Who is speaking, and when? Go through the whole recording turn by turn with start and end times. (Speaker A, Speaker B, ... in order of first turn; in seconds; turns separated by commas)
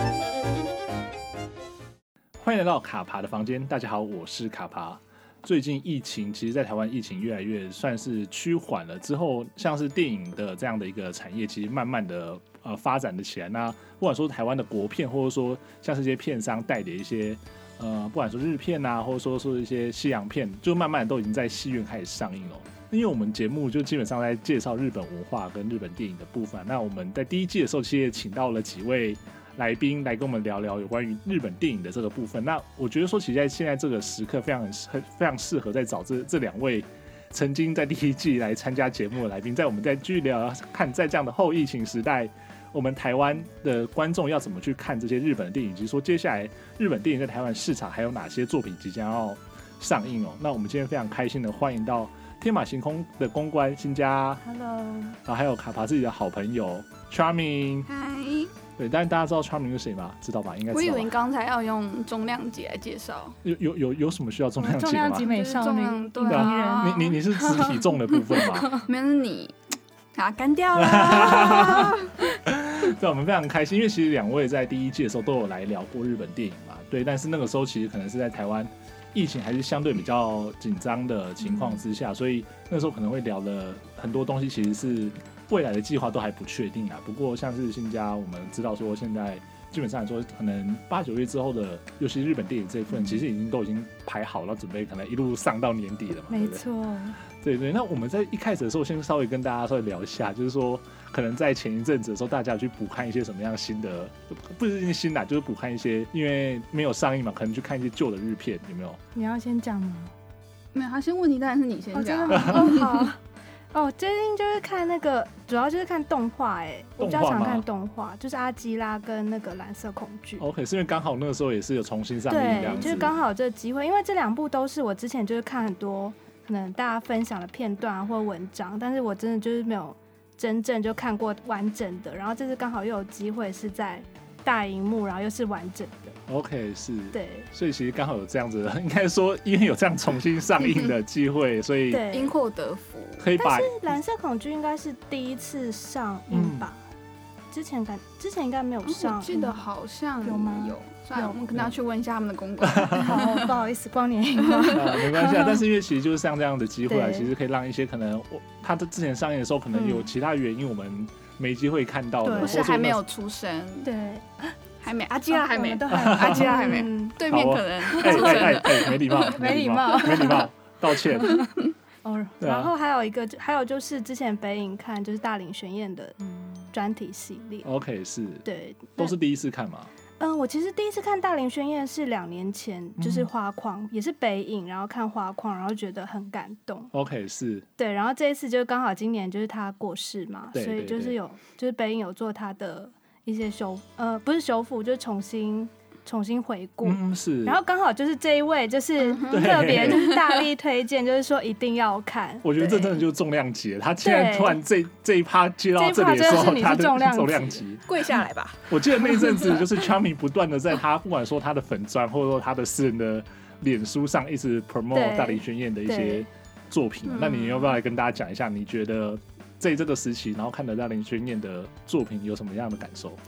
Speaker A: 2.4-54.4, Speaker B: 54.4-55.2, Speaker A: 55.2-57.9, Speaker C: 57.9-58.5, Speaker A: 58.8-61.1, Speaker C: 60.7-63.4, Speaker A: 63.4-65.3, Speaker B: 64.6-67.8, Speaker C: 65.2-67.2, Speaker A: 66.3-68.7, Speaker B: 68.3-68.8, Speaker C: 68.7-69.5, Speaker C: 70.1-72.3, Speaker A: 70.7-96.6, Speaker B: 96.3-97.2, Speaker A: 97.2-109.0, Speaker B: 109.1-110.1, Speaker C: 110.7-113.1, Speaker B: 111.9-113.2, Speaker A: 112.3-112.7, Speaker B: 113.7-120.4, Speaker A: 117.0-117.6, Speaker A: 120.4-123.1, Speaker B: 122.3-136.2, Speaker C: 122.7-123.0, Speaker A: 136.3-142.1, Speaker B: 137.1-137.5, Speaker B: 141.9-142.3, Speaker C: 142.1-143.3, Speaker A: 143.2-143.9, Speaker B: 143.4-146.8, Speaker A: 146.3-146.7, Speaker B: 147.5-149.6, Speaker C: 148.8-153.5, Speaker B: 150.2-151.4, Speaker A: 152.7-153.0, Speaker B: 152.9-155.6, Speaker C: 154.5-154.8, Speaker A: 154.7-163.0, Speaker B: 156.9-157.3, Speaker B: 159.7-160.1, Speaker B: 162.2-162.6, Speaker C: 162.4-163.9, Speaker B: 163.8-164.5, Speaker C: 164.8-169.4, Speaker B: 165.3-167.2, Speaker A: 165.9-166.6, Speaker A: 167.2-171.4, Speaker B: 167.8-177.7, Speaker A: 172.4-172.7, Speaker A: 177.6-178.4, Speaker B: 178.4-179.1, Speaker A: 179.0-179.9, Speaker B: 180.2-186.9, Speaker A: 183.0-183.3, Speaker A: 186.9-187.7, Speaker B: 187.8-203.0, Speaker A: 190.5-191.2, Speaker A: 196.8-197.6, Speaker C: 199.0-200.4, Speaker A: 199.3-200.1, Speaker A: 202.4-207.9, Speaker B: 204.0-204.6, Speaker B: 205.7-207.6, Speaker C: 207.9-209.7, Speaker A: 208.7-223.2, Speaker B: 214.9-216.2, Speaker C: 217.0-217.8